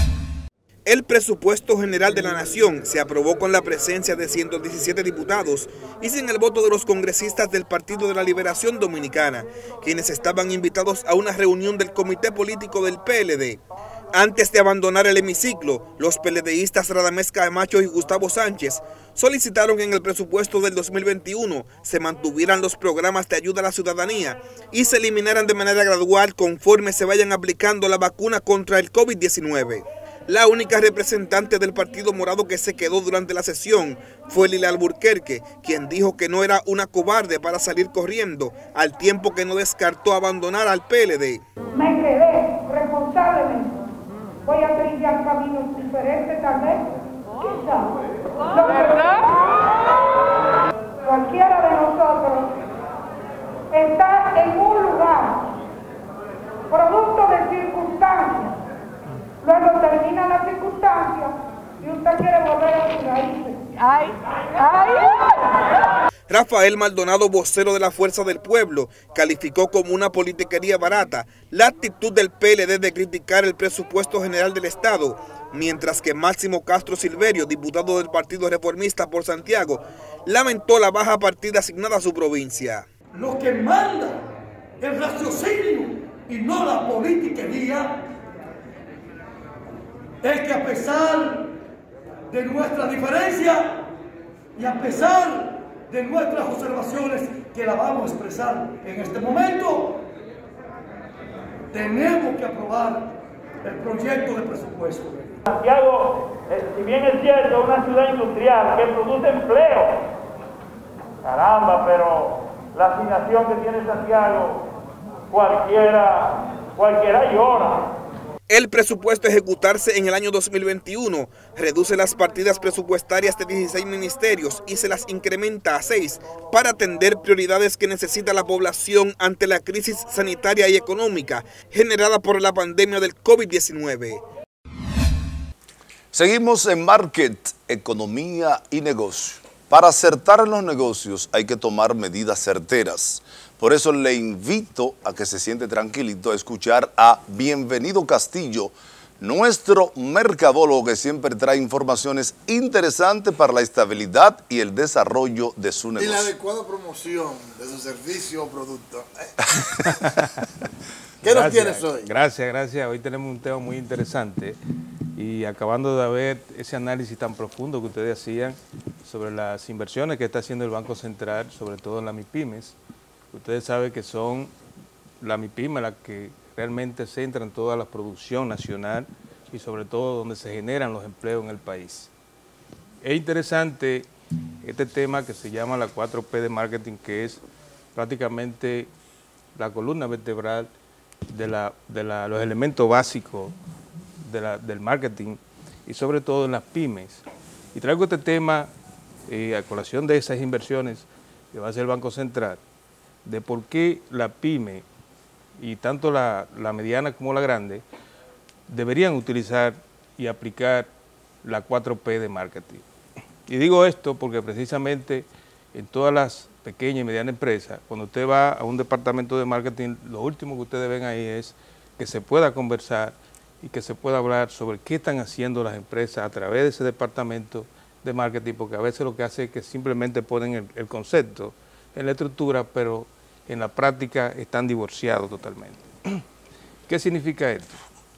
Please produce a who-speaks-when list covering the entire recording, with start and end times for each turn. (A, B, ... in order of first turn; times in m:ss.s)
0:00.8-0:13.6 A
0:14.1-0:41.4 A
0:41.7-0:43.8 B
0:44.4-0:46.8 B
0:47.4-0:49.5 B
0:51.0-0:52.6 B
0:53.7-0:55.5 B
0:56.7-0:58.6 B
0:59.4-1:04.1 B
1:04.6-1:05.1 B
1:06.3-1:22.9 A
1:23.1-1:24.2 C
1:24.8-1:28.1 C
1:30.2-1:31.5 C
1:32.3-1:33.8 C
1:34.6-1:40.0 C
1:41.7-1:45.3 C
1:45.4-1:50.1 D
1:51.2-1:54.6 D
1:55.3-1:57.9 D
1:58.5-2:14.2 A
2:16.1-2:36.3 E
2:36.0-2:39.3 F
2:41.2-2:42.1 F
2:41.2-2:44.6 G
2:45.1-2:52.8 G
2:53.3-2:54.5 G
2:55.2-3:02.1 G
3:03.0-3:04.1 G
3:04.6-3:07.4 G
3:07.9-3:08.9 G
3:09.5-3:10.7 G
3:11.3-3:13.5 G
3:14.2-3:17.2 G
3:17.7-3:18.7 G
3:19.3-3:22.6 G
3:23.2-3:24.8 G
3:25.6-3:27.8 G
3:28.7-3:30.9 G
3:31.4-3:32.8 G
3:33.5-3:56.2 G
3:56.9-3:57.8 G